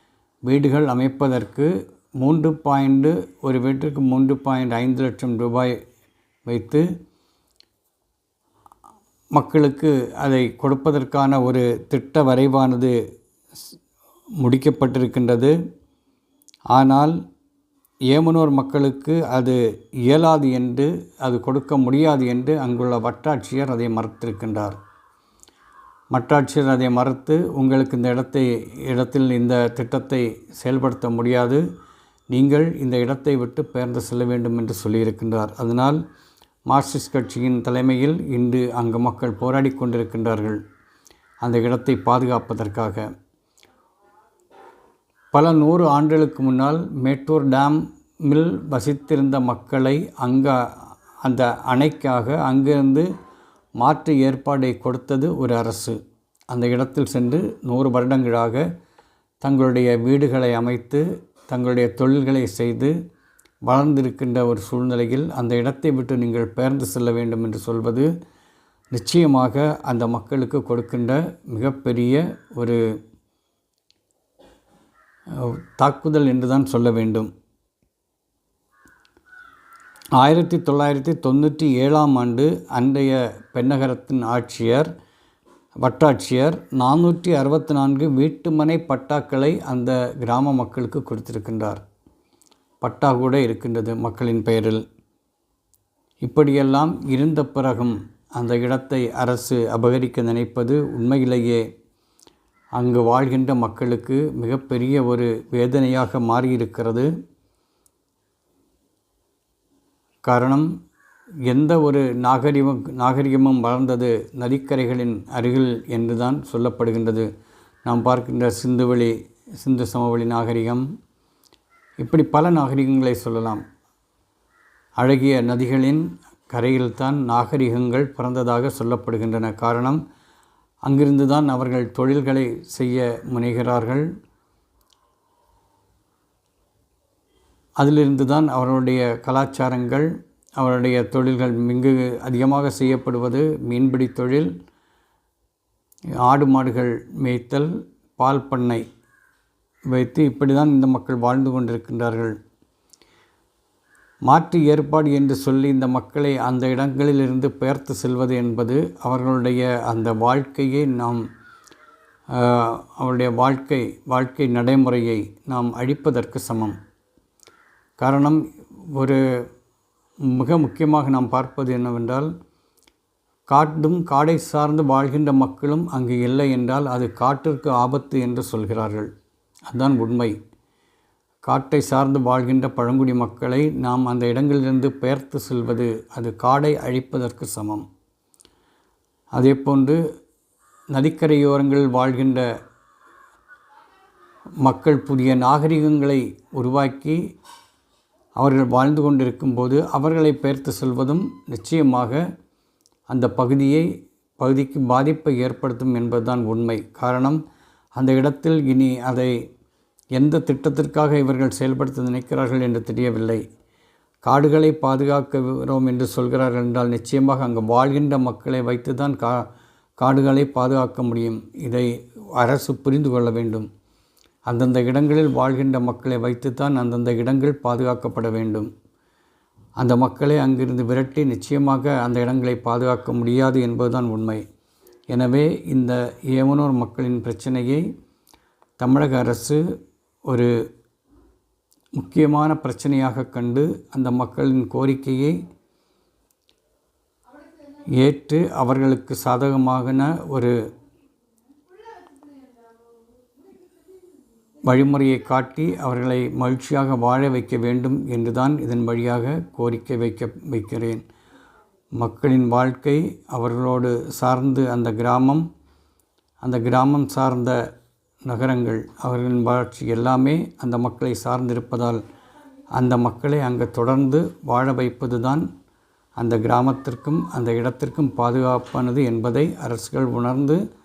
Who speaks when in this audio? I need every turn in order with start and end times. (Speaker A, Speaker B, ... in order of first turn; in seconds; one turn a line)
Speaker A: 0.5-5.8
Speaker A: 6.5-6.9
Speaker A: 9.3-13.0
Speaker A: 14.4-15.6
Speaker A: 16.7-17.2
Speaker A: 18.1-24.8
Speaker A: 26.1-31.6
Speaker A: 32.3-36.0
Speaker A: 36.7-40.6
Speaker A: 41.4-43.1
Speaker A: 45.3-53.1
Speaker A: 53.8-56.0
Speaker A: 56.5-58.6
Speaker A: 59.4-62.9
Speaker A: 63.7-68.1
Speaker A: 68.9-72.8
Speaker A: 75.3-77.3
Speaker A: 80.2-84.9
Speaker A: 85.8-91.8
Speaker A: 92.8-94.8
Speaker A: 96.2-101.7
Speaker A: 102.8-107.1
Speaker A: 110.2-110.7
Speaker A: 111.5-117.3
Speaker A: 117.8-120.9
Speaker A: 122.0-123.6
Speaker A: 125.0-130.0
Speaker A: 130.8-134.1
Speaker A: 137.8-144.5
Speaker A: 146.2-148.8
Speaker A: 149.9-152.4
Speaker A: 154.3-161.3
Speaker A: 162.3-166.8
Speaker A: 168.0-169.4
Speaker A: 170.3-172.3
Speaker A: 173.5-179.1
Speaker A: 179.7-180.4
Speaker A: 181.4-187.9
Speaker A: 189.3-190.0
Speaker A: 190.9-192.5
Speaker A: 194.6-197.2
Speaker A: 198.4-202.2
Speaker A: 203.1-207.4
Speaker A: 207.9-209.3
Speaker A: 210.2-213.4
Speaker A: 214.2-223.7
Speaker A: 224.5-228.7
Speaker A: 229.8-234.4
Speaker A: 235.1-237.8
Speaker A: 238.8-239.6
Speaker A: 240.3-240.6
Speaker A: 242.0-245.4
Speaker A: 247.9-250.6
Speaker A: 254.7-261.0
Speaker A: 262.0-265.5
Speaker A: 266.4-267.6
Speaker A: 268.3-272.0
Speaker A: 272.7-275.5
Speaker A: 276.2-280.6